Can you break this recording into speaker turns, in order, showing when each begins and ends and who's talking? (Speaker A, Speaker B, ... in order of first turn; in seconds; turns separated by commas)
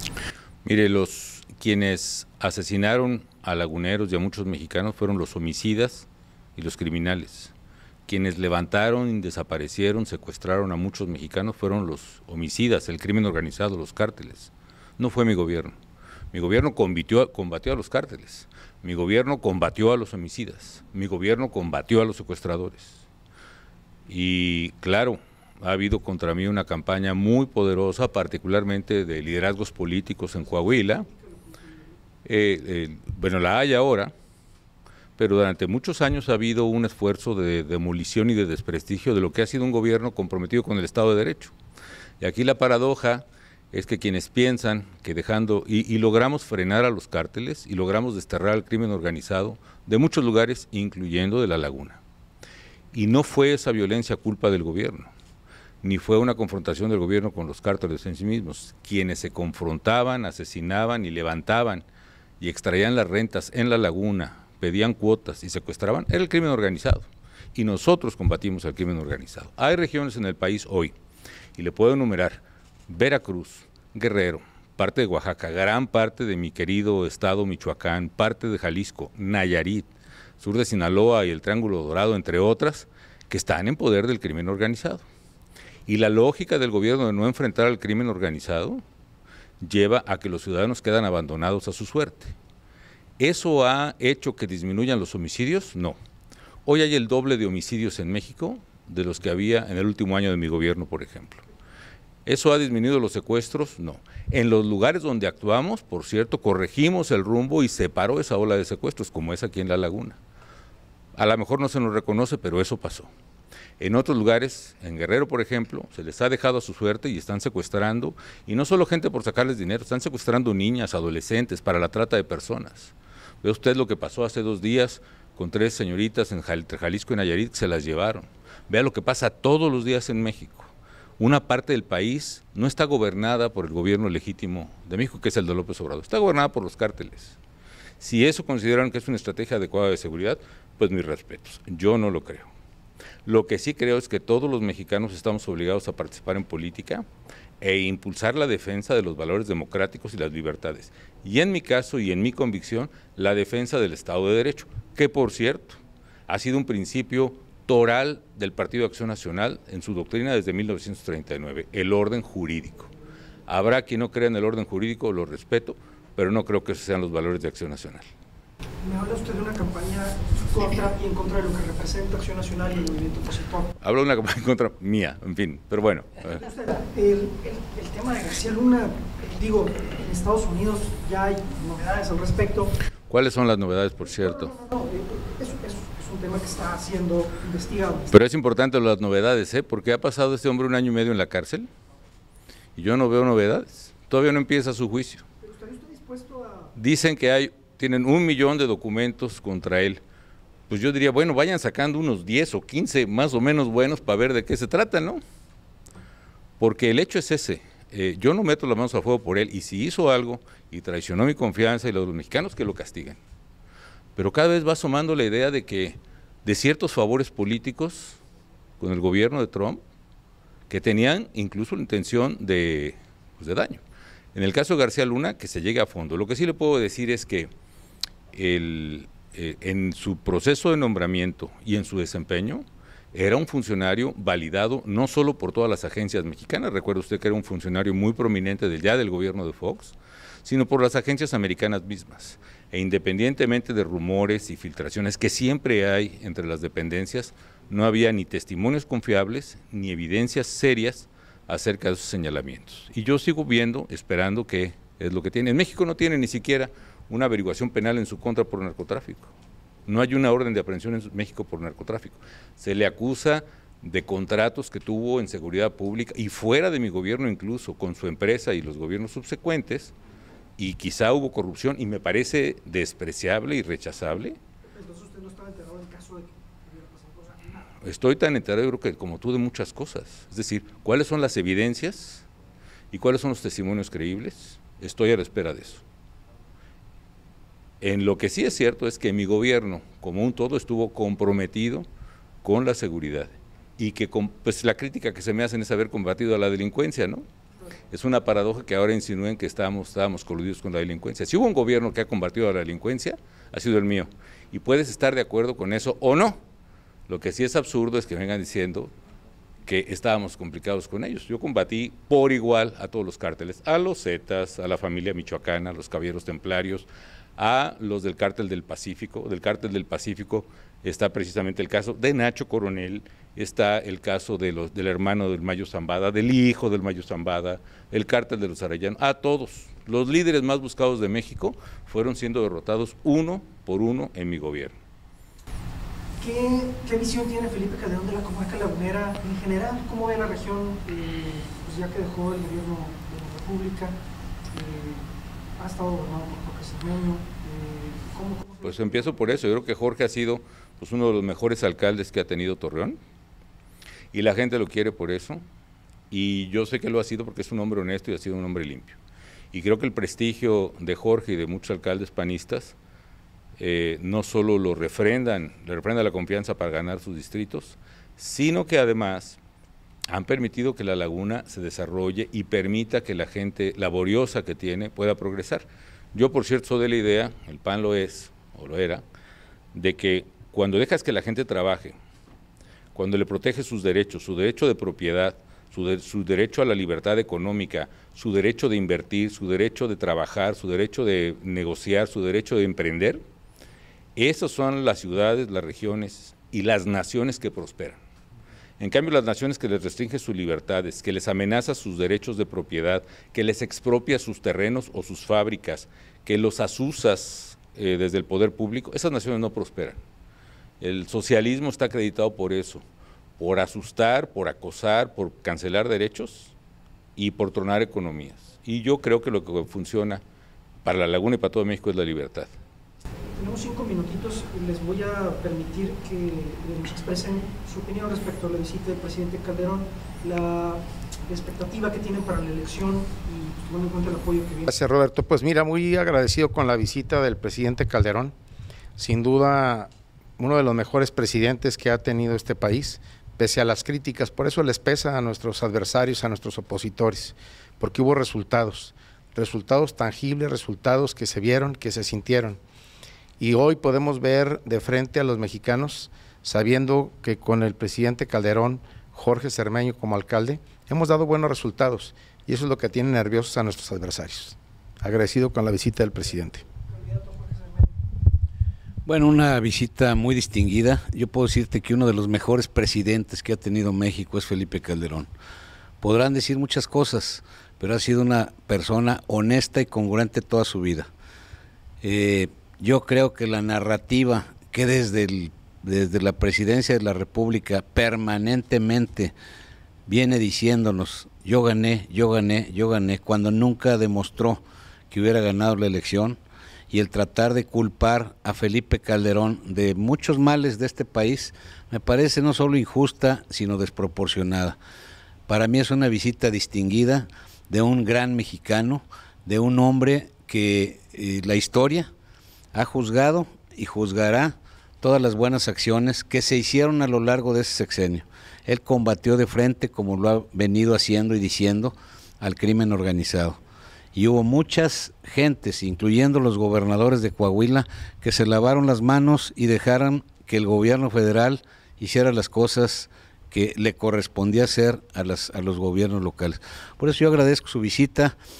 Speaker A: 0.6-7.5, Speaker A: 8.1-15.7, Speaker A: 16.3-23.0, Speaker A: 24.1-31.1, Speaker B: 30.6-31.9, Speaker A: 32.2-34.1, Speaker A: 35.2-41.5, Speaker A: 42.2-52.0, Speaker A: 52.9-55.1, Speaker A: 55.8-61.8, Speaker A: 62.4-70.9, Speaker A: 71.5-79.9, Speaker A: 80.4-85.0, Speaker A: 85.9-88.8, Speaker A: 89.6-92.3, Speaker A: 93.2-96.0, Speaker A: 96.6-101.4, Speaker A: 102.2-110.2, Speaker A: 111.2-113.1, Speaker A: 113.8-137.3, Speaker A: 138.0-142.5, Speaker A: 143.2-147.1, Speaker A: 147.6-162.9, Speaker A: 163.5-168.1, Speaker B: 168.8-173.7, Speaker A: 173.8-176.4, Speaker B: 176.3-182.7, Speaker A: 183.1-184.5, Speaker B: 184.1-188.1, Speaker A: 188.1-191.7, Speaker A: 192.8-195.2, Speaker B: 195.4-196.7, Speaker A: 196.8-200.0, Speaker A: 200.7-205.2, Speaker A: 206.6-213.2, Speaker A: 214.2-218.2, Speaker A: 218.8-219.8, Speaker A: 220.7-223.8, Speaker A: 224.3-227.5, Speaker A: 228.3-259.3, Speaker A: 259.9-269.9, Speaker A: 270.6-274.4, Speaker B: 274.6-277.6, Speaker A: 277.8-282.2, Speaker A: 282.9-285.8, Speaker A: 287.8-291.9, Speaker A: 292.4-297.2, Speaker A: 297.9-306.4, Speaker A: 307.1-308.9, Speaker A: 309.6-316.9, Speaker A: 317.4-334.7, Speaker B: 336.2-343.9, Speaker B: 344.5-349.2, Speaker A: 348.6-353.0, Speaker A: 354.1-355.4, Speaker A: 356.1-359.0, Speaker A: 359.5-362.7, Speaker A: 363.6-369.4, Speaker A: 370.1-379.0, Speaker A: 379.7-381.9, Speaker A: 382.9-393.2, Speaker A: 394.1-398.0, Speaker A: 398.8-410.0, Speaker A: 410.8-412.8, Speaker A: 413.4-416.5, Speaker A: 417.2-420.2, Speaker A: 420.8-422.5, Speaker B: 423.3-434.7, Speaker C: 434.7-438.3, Speaker C: 439.0-452.6, Speaker C: 453.4-466.6, Speaker B: 466.9-467.9, Speaker D: 469.1-475.3, Speaker D: 476.0-481.1, Speaker D: 482.0-489.3, Speaker D: 490.1-496.4, Speaker D: 496.9-504.8, Speaker D: 505.5-512.1, Speaker D: 512.7-523.6, Speaker D: 524.1-538.3